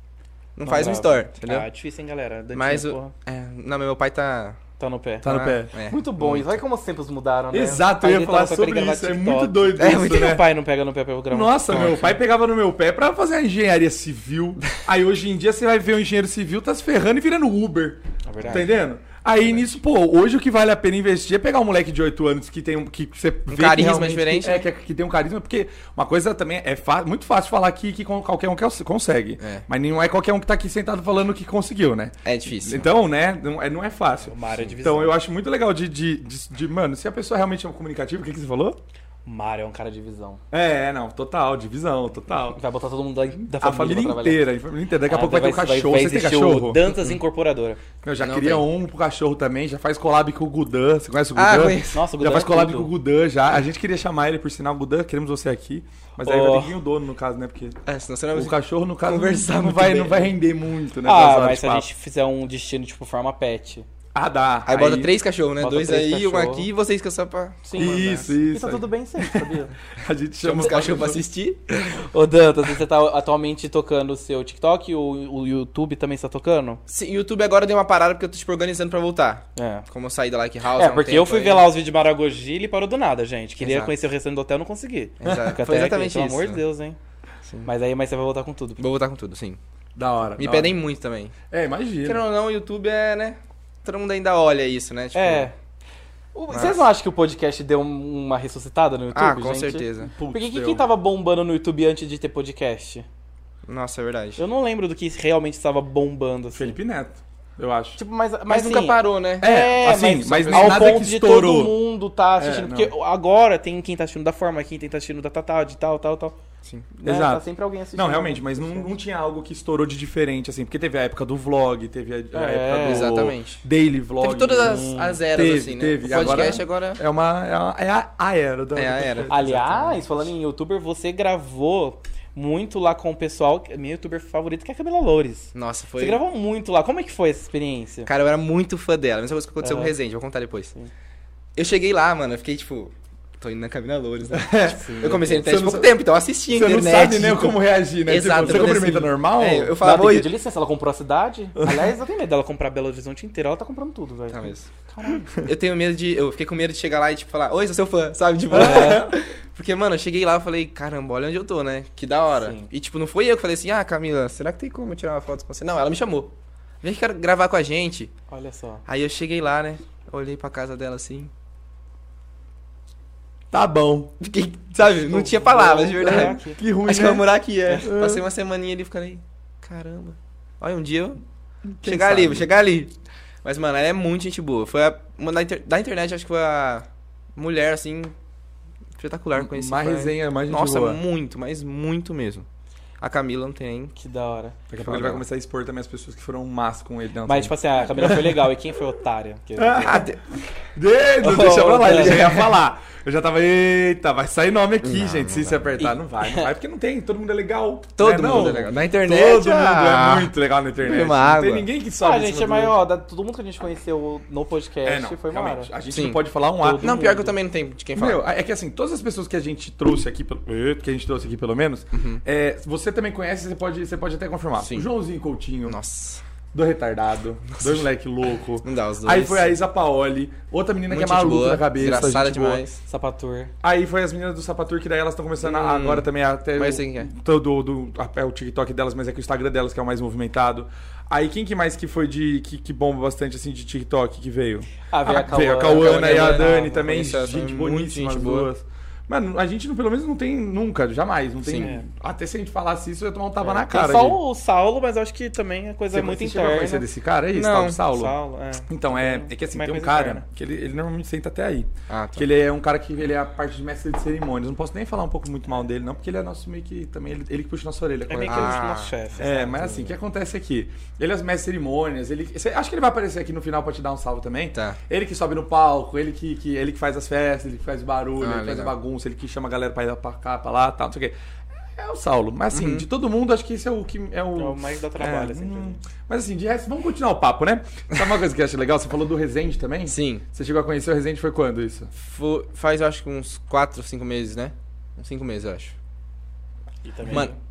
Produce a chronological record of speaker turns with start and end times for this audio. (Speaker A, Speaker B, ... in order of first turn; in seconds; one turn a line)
Speaker A: 0.6-1.7
Speaker B: 0.7-3.1
Speaker A: 2.5-4.6
Speaker B: 4.8-12.1
Speaker C: 5.2-5.7
Speaker A: 5.2-6.5
Speaker C: 7.5-10.4
Speaker A: 9.8-10.4
Speaker C: 11.3-38.8
Speaker A: 11.7-12.0
Speaker B: 18.3-18.7
Speaker A: 23.5-24.6
Speaker A: 29.4-29.7
Speaker A: 32.2-32.9
Speaker B: 34.2-35.2
Speaker B: 39.2-40.4
Speaker C: 40.5-42.6
Speaker B: 42.5-44.4
Speaker C: 43.5-46.9
Speaker B: 45.1-47.8
Speaker C: 48.0-57.8
Speaker A: 48.2-48.7
Speaker A: 51.4-52.0
Speaker B: 51.9-52.9
Speaker B: 56.2-56.8
Speaker A: 57.9-60.4
Speaker C: 58.3-61.9
Speaker B: 61.0-63.9
Speaker C: 64.1-65.1
Speaker A: 64.7-68.3
Speaker B: 65.6-66.7
Speaker B: 67.7-69.7
Speaker C: 67.8-71.2
Speaker A: 70.4-71.6
Speaker B: 71.8-76.8
Speaker A: 76.9-81.7
Speaker B: 79.6-79.9
Speaker B: 80.8-87.0
Speaker A: 83.6-83.9
Speaker A: 85.2-86.6
Speaker B: 87.7-88.8
Speaker A: 88.8-89.6
Speaker C: 90.0-90.8
Speaker A: 90.4-91.4
Speaker C: 91.5-92.2
Speaker A: 92.0-95.5
Speaker B: 95.1-95.5
Speaker B: 96.3-103.0
Speaker A: 96.5-96.9
Speaker A: 99.1-100.1
Speaker C: 100.1-100.8
Speaker A: 103.7-104.4
Speaker B: 104.4-106.8
Speaker C: 106.5-108.0
Speaker B: 108.0-116.4
Speaker A: 108.5-109.7
Speaker C: 109.4-111.8
Speaker A: 110.2-110.8
Speaker C: 112.4-112.9
Speaker B: 116.9-118.9
Speaker C: 117.0-129.5
Speaker B: 122.3-123.1
Speaker A: 122.8-123.6
Speaker A: 124.2-127.0
Speaker B: 124.6-125.2
Speaker B: 126.2-126.5
Speaker A: 128.8-130.0
Speaker B: 129.3-138.1
Speaker A: 135.6-136.2
Speaker A: 138.1-140.7
Speaker B: 139.6-139.9
Speaker A: 141.6-150.3
Speaker C: 144.3-145.9
Speaker B: 144.6-145.4
Speaker C: 146.5-150.1
Speaker B: 148.5-149.0
Speaker B: 149.8-155.4
Speaker C: 151.6-151.9
Speaker A: 154.3-154.7
Speaker A: 155.3-168.1
Speaker C: 158.5-159.1
Speaker B: 158.6-159.0
Speaker B: 162.4-162.7
Speaker B: 168.3-168.8
Speaker A: 168.9-171.3
Speaker C: 173.5-174.1
Speaker A: 174.2-181.2
Speaker B: 174.8-176.6
Speaker C: 176.0-178.2
Speaker C: 181.7-182.5
Speaker A: 181.8-182.9
Speaker A: 183.4-188.1
Speaker A: 189.0-192.5
Speaker C: 189.4-191.0
Speaker A: 193.0-193.9
Speaker B: 194.0-194.6
Speaker C: 194.7-198.5
Speaker A: 194.8-195.2
Speaker B: 197.3-200.1
Speaker C: 199.6-200.1
Speaker A: 199.8-200.2
Speaker C: 200.8-212.8
Speaker A: 201.2-202.6
Speaker B: 201.5-202.2
Speaker A: 204.8-205.7
Speaker B: 205.8-206.5
Speaker A: 208.0-211.7
Speaker B: 212.0-215.7
Speaker C: 214.8-216.9
Speaker A: 215.9-216.2
Speaker B: 216.6-217.4
Speaker A: 216.8-218.2
Speaker C: 217.9-225.8
Speaker A: 221.9-222.2
Speaker A: 224.6-224.9
Speaker A: 225.7-226.2
Speaker C: 226.5-232.6
Speaker A: 227.6-227.8
Speaker A: 228.6-229.6
Speaker A: 230.9-232.8
Speaker B: 232.9-233.5
Speaker C: 233.6-254.2
Speaker A: 235.4-237.1
Speaker B: 244.9-246.9
Speaker A: 245.4-248.5
Speaker A: 251.4-251.7
Speaker B: 251.6-251.9
Speaker B: 253.4-256.9
Speaker C: 255.9-258.1
Speaker A: 257.3-257.8
Speaker B: 257.9-260.2
Speaker C: 258.7-268.6
Speaker A: 261.9-262.3
Speaker B: 268.1-269.9
Speaker A: 268.2-268.9
Speaker C: 269.2-281.1
Speaker A: 274.5-274.8
Speaker A: 278.2-278.7
Speaker C: 281.8-291.9
Speaker A: 282.5-282.9
Speaker B: 284.4-285.8
Speaker A: 289.9-290.2
Speaker A: 291.9-295.8
Speaker B: 296.8-297.4